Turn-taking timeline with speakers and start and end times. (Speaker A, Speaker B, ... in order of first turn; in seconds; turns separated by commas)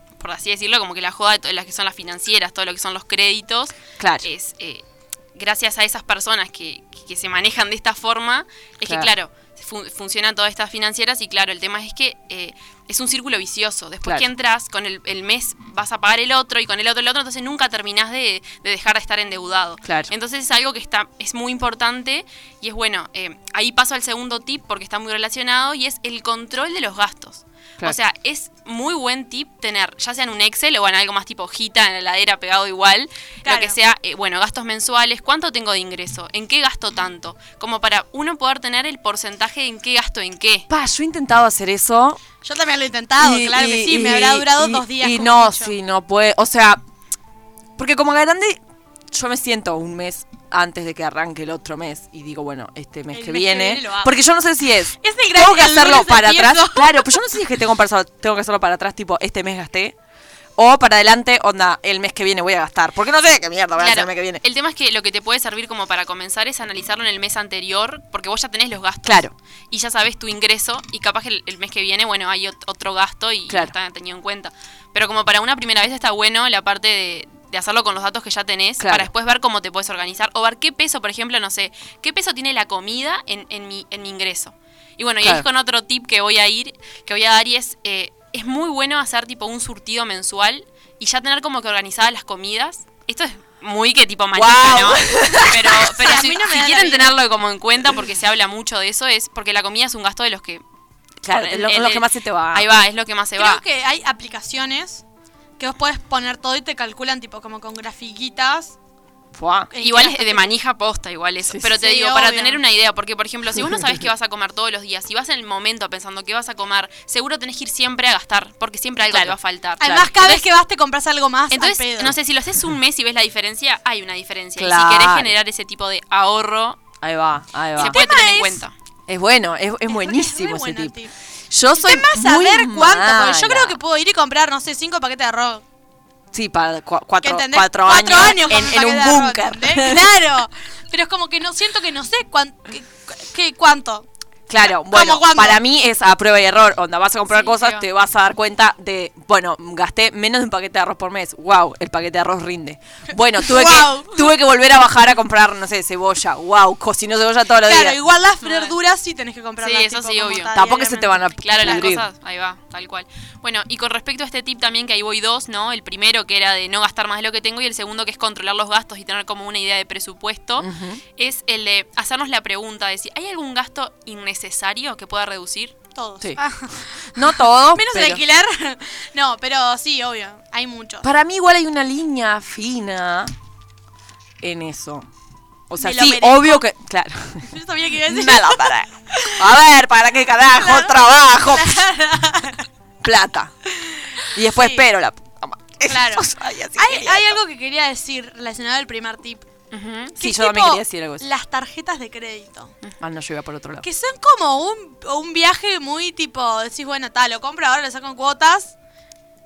Speaker A: 0.2-4.8, Speaker B: 4.0-4.3, Speaker A: 5.3-40.7, Speaker B: 8.8-9.1, Speaker B: 19.8-20.1, Speaker C: 33.4-33.8, Speaker B: 40.7-42.2, Speaker C: 42.4-45.7, Speaker B: 43.2-46.8, Speaker B: 47.8-48.6, Speaker B: 49.1-60.0, Speaker C: 53.1-54.1, Speaker C: 55.0-57.2, Speaker B: 60.6-64.4, Speaker A: 63.8-100.6, Speaker B: 69.0-69.3, Speaker B: 73.5-73.7, Speaker B: 78.8-79.1, Speaker B: 94.3-96.0, Speaker C: 96.0-97.2, Speaker B: 101.2-102.7, Speaker A: 101.3-103.6, Speaker C: 103.4-105.0, Speaker C: 105.6-108.8, Speaker B: 109.3-109.7, Speaker C: 109.7-110.5, Speaker A: 109.8-120.4, Speaker C: 111.8-112.6, Speaker B: 113.6-114.0, Speaker B: 119.1-120.1, Speaker C: 119.8-122.2, Speaker A: 121.5-126.8, Speaker B: 124.6-125.3, Speaker B: 127.0-128.0, Speaker A: 127.8-128.7, Speaker C: 127.8-128.6, Speaker B: 129.1-130.9, Speaker C: 129.9-131.1, Speaker B: 131.5-133.8, Speaker C: 131.7-135.6, Speaker B: 136.3-140.1, Speaker C: 137.2-144.1, Speaker B: 144.5-158.0, Speaker C: 144.9-145.6, Speaker A: 147.3-147.8, Speaker C: 153.4-154.3, Speaker C: 157.6-161.9, Speaker A: 158.4-158.7, Speaker A: 159.6-160.5, Speaker B: 160.5-162.1, Speaker A: 161.4-175.7, Speaker B: 170.6-171.0, Speaker C: 175.9-181.1, Speaker B: 177.1-178.2, Speaker B: 181.0-183.3, Speaker B: 184.4-185.1, Speaker B: 185.7-187.5, Speaker C: 185.8-186.7, Speaker C: 187.5-189.5, Speaker B: 188.1-191.8, Speaker C: 190.5-192.7, Speaker B: 193.0-193.5, Speaker C: 193.8-194.8, Speaker B: 194.3-197.4, Speaker C: 195.9-199.5, Speaker A: 199.7-200.2, Speaker C: 200.2-202.7, Speaker B: 200.2-201.2, Speaker B: 203.0-203.9, Speaker C: 203.8-208.8